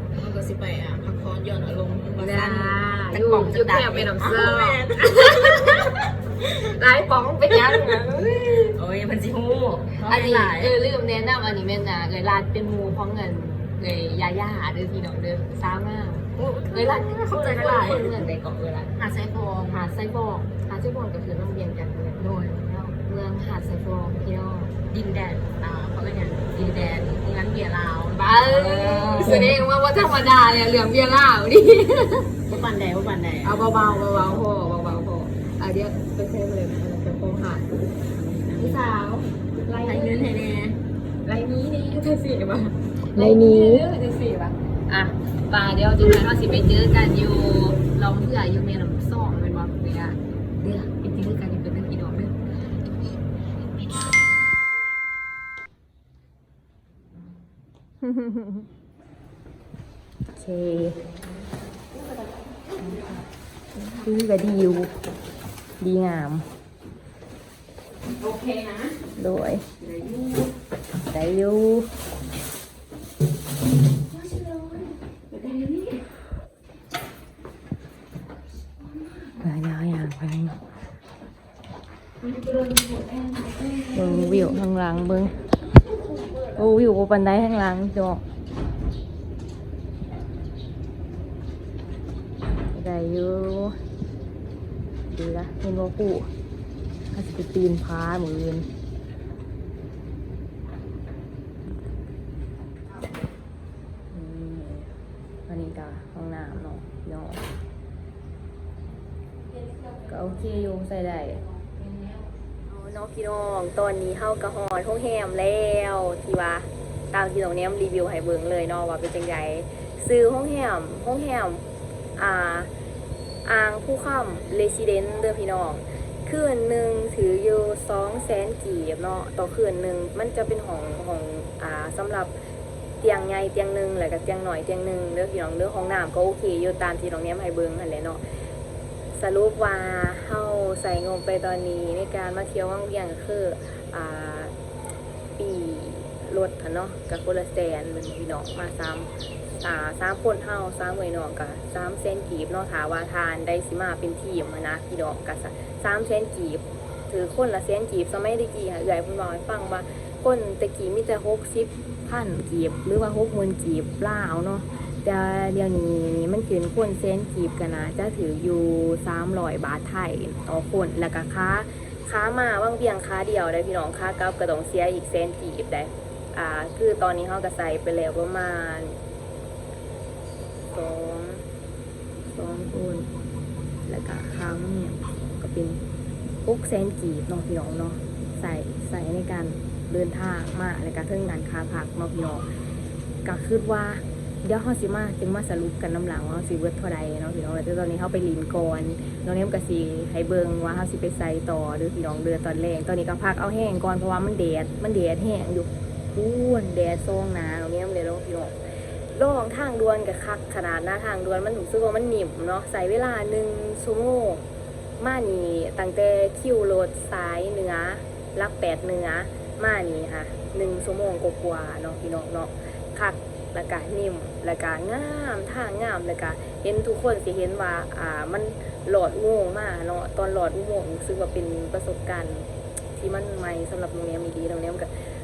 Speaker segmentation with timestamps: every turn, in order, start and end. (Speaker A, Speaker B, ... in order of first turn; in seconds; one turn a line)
Speaker A: 0.1-6.0
Speaker B: 2.2-8.8
Speaker A: 7.7-8.0
Speaker A: 8.7-10.7
Speaker B: 10.0-18.9
Speaker A: 16.4-18.2
Speaker A: 18.9-19.9
Speaker B: 19.7-24.7
Speaker A: 24.9-29.6
Speaker B: 28.1-32.3
Speaker A: 32.5-33.9
Speaker B: 33.4-37.7
Speaker A: 38.3-39.0
Speaker B: 38.5-39.0
Speaker B: 39.7-40.4
Speaker A: 39.8-40.8
Speaker B: 41.2-52.4
Speaker A: 43.2-43.8
Speaker B: 58.0-58.6
Speaker B: 60.3-61.0
Speaker B: 62.8-63.2
Speaker B: 64.0-64.9
Speaker B: 65.8-66.5
Speaker A: 68.2-69.0
Speaker B: 69.2-69.7
Speaker A: 69.8-70.5
Speaker B: 71.0-71.9
Speaker A: 75.3-76.1
Speaker B: 79.4-80.6
Speaker A: 82.2-84.3
Speaker B: 83.9-85.4
Speaker B: 86.5-88.2
Speaker B: 92.7-93.8
Speaker B: 95.1-96.3
Speaker B: 97.1-98.7
Speaker B: 104.1-104.9
Speaker B: 105.5-107.4
Speaker B: 110.0-111.5
Speaker B: 112.7-121.7
Speaker B: 122.2-122.7
Speaker B: 123.5-132.3
Speaker B: 133.0-138.2
Speaker B: 139.1-144.5
Speaker B: 145.4-179.0
Speaker B: 180.7-181.4
Speaker B: 182.3-183.1
Speaker B: 183.9-185.8
Speaker B: 186.4-192.5
Speaker B: 193.2-208.6
Speaker B: 209.1-214.4
Speaker B: 215.0-234.9